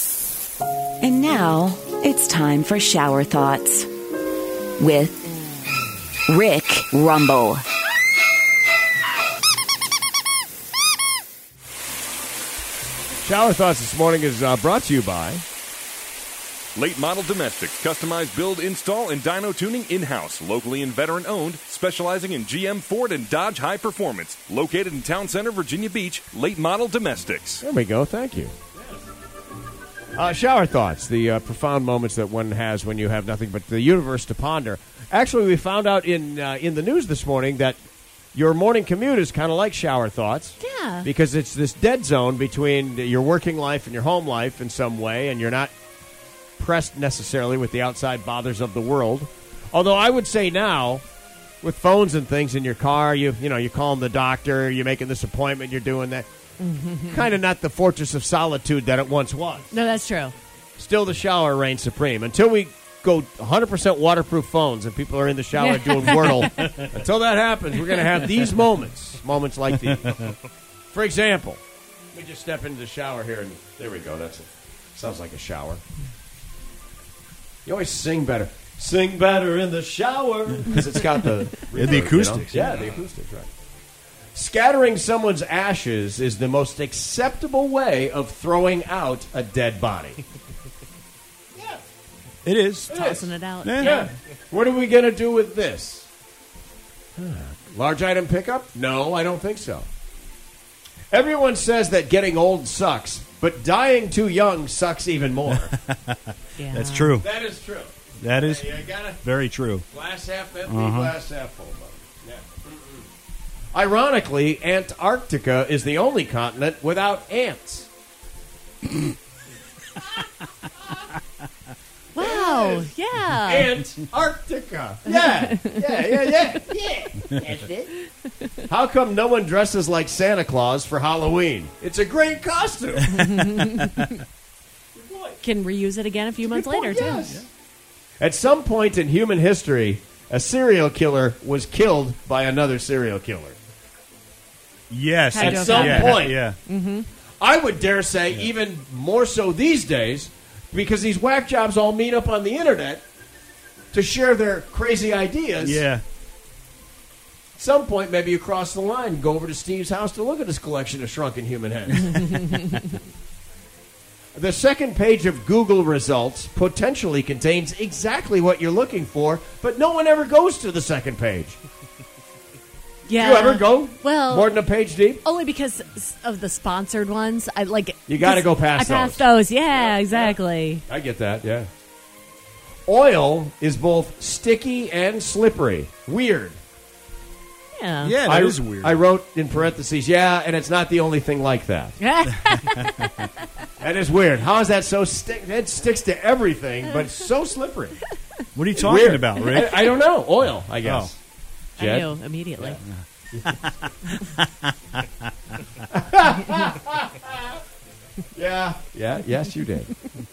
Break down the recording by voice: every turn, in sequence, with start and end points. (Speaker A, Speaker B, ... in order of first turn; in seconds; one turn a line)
Speaker A: 1.0-3.9
Speaker A: 4.8-5.2
Speaker A: 6.3-7.6
Speaker B: 13.2-15.4
Speaker C: 16.8-27.6
Speaker B: 27.6-29.0
Speaker B: 30.1-37.8
Speaker B: 38.3-45.7
Speaker D: 40.6-41.1
Speaker B: 46.6-51.0
Speaker B: 51.6-56.3
Speaker D: 56.6-57.1
Speaker B: 57.1-59.7
Speaker D: 59.7-60.3
Speaker B: 60.8-70.2
Speaker D: 65.5-66.7
Speaker E: 66.4-66.9
Speaker B: 70.9-71.6
Speaker B: 72.1-75.8
Speaker B: 77.6-83.5
Speaker E: 81.7-82.8
Speaker B: 84.3-90.2
Speaker E: 92.4-93.0
Speaker B: 92.9-93.3
Speaker D: 92.9-94.1
Speaker E: 93.6-94.0
Speaker B: 93.8-96.1
Speaker B: 97.2-99.9
Speaker B: 101.1-105.7
Speaker E: 105.5-107.2
Speaker D: 106.6-107.2
Speaker B: 107.2-109.2
Speaker E: 108.2-109.8
Speaker B: 109.9-113.1
Speaker E: 110.7-111.1
Speaker B: 113.7-117.9
Speaker D: 122.1-123.7
Speaker B: 122.2-122.9
Speaker B: 123.4-127.9
Speaker D: 125.1-126.3
Speaker B: 128.7-133.1
Speaker D: 133.1-134.1
Speaker B: 135.0-135.4
Speaker D: 135.4-137.3
Speaker B: 136.4-137.4
Speaker B: 138.2-143.6
Speaker E: 144.9-146.6
Speaker D: 145.3-147.1
Speaker B: 145.4-146.4
Speaker B: 147.4-153.0
Speaker B: 153.9-155.8
Speaker E: 155.6-156.0
Speaker B: 157.6-162.2
Speaker E: 162.0-162.6
Speaker B: 164.3-171.6
Speaker D: 173.1-174.6
Speaker B: 173.2-175.2
Speaker D: 175.2-180.8
Speaker B: 178.1-181.7
Speaker B: 182.9-186.6
Speaker D: 187.8-188.2
Speaker E: 188.0-189.0
Speaker B: 188.2-192.0
Speaker D: 192.0-193.3
Speaker E: 192.6-193.1
Speaker B: 193.8-198.0
Speaker E: 198.5-199.8
Speaker B: 198.8-201.2
Speaker E: 200.8-201.1
Speaker B: 201.8-202.8
Speaker D: 201.8-202.8
Speaker E: 203.4-205.0
Speaker B: 205.9-207.5
Speaker B: 208.3-209.9